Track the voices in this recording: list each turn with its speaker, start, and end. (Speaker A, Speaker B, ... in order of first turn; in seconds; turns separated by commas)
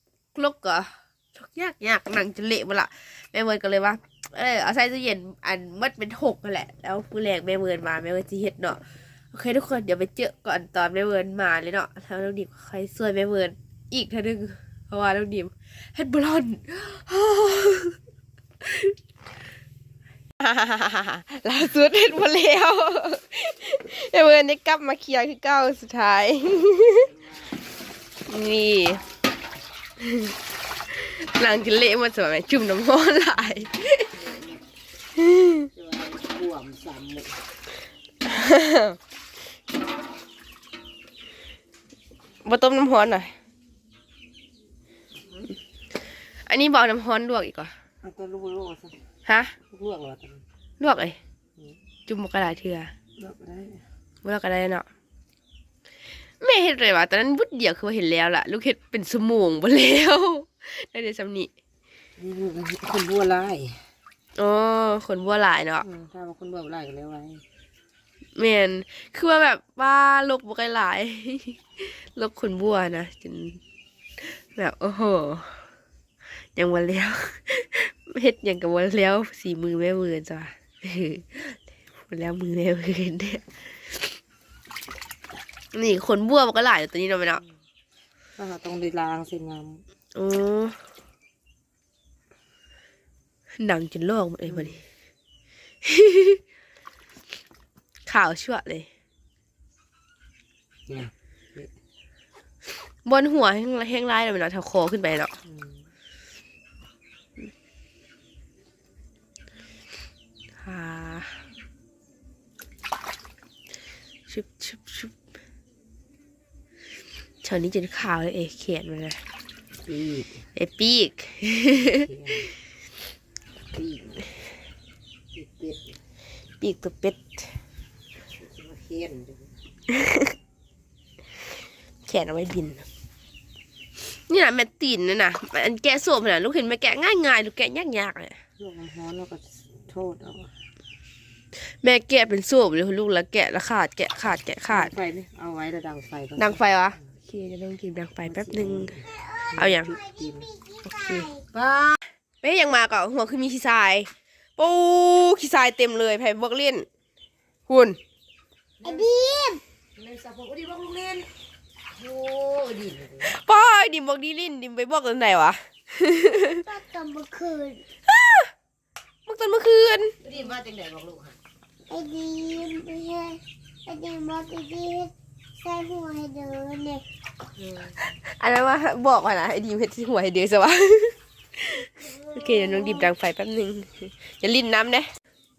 Speaker A: 0.3-18.0, Speaker A: 18.6-18.9, Speaker A: 20.4-27.1, Speaker B: 27.0-27.6, Speaker A: 28.3-29.0, Speaker A: 30.0-30.3, Speaker A: 30.9-34.1, Speaker B: 34.1-34.6, Speaker A: 35.2-35.7, Speaker B: 35.7-37.5, Speaker A: 38.2-39.0, Speaker A: 42.4-43.3, Speaker A: 46.4-47.7, Speaker B: 48.0-49.0, Speaker A: 49.2-49.5, Speaker B: 49.7-50.4, Speaker A: 50.8-51.2, Speaker A: 52.1-52.9, Speaker B: 53.2-53.8, Speaker A: 54.2-54.9, Speaker A: 56.4-61.5, Speaker B: 62.2-63.9, Speaker A: 64.3-65.8, Speaker B: 65.8-67.4, Speaker A: 68.3-73.6, Speaker A: 74.2-75.6, Speaker A: 76.5-84.0, Speaker A: 85.7-87.4, Speaker B: 88.4-89.8, Speaker A: 90.1-90.8, Speaker A: 93.6-94.8, Speaker B: 94.5-94.8, Speaker A: 95.8-96.4, Speaker A: 98.0-98.9, Speaker B: 100.9-101.7, Speaker A: 103.0-105.3, Speaker B: 105.4-105.9, Speaker A: 110.6-111.4, Speaker A: 114.3-115.1, Speaker A: 117.4-119.2, Speaker B: 119.8-120.4, Speaker A: 120.5-122.1, Speaker B: 121.8-122.5, Speaker B: 123.6-124.2, Speaker B: 125.3-126.0, Speaker A: 126.6-127.5, Speaker B: 128.3-129.6, Speaker A: 129.9-130.3, Speaker A: 132.0-132.9, Speaker A: 134.0-138.4, Speaker B: 138.6-140.6, Speaker A: 141.6-144.9, Speaker B: 144.7-146.6, Speaker A: 146.4-149.0, Speaker B: 148.2-150.5, Speaker C: 149.2-151.4, Speaker A: 149.5-150.0, Speaker A: 150.8-151.3, Speaker B: 151.5-152.1, Speaker A: 152.4-156.9, Speaker A: 157.7-158.0, Speaker B: 158.8-159.1, Speaker C: 158.8-159.6, Speaker B: 159.9-161.3, Speaker B: 161.9-163.3, Speaker A: 163.2-166.6, Speaker C: 166.6-167.8, Speaker A: 168.1-168.5, Speaker A: 169.2-170.2, Speaker B: 170.2-171.4, Speaker C: 171.9-177.0, Speaker B: 177.6-177.9, Speaker A: 178.0-185.1, Speaker C: 182.4-182.9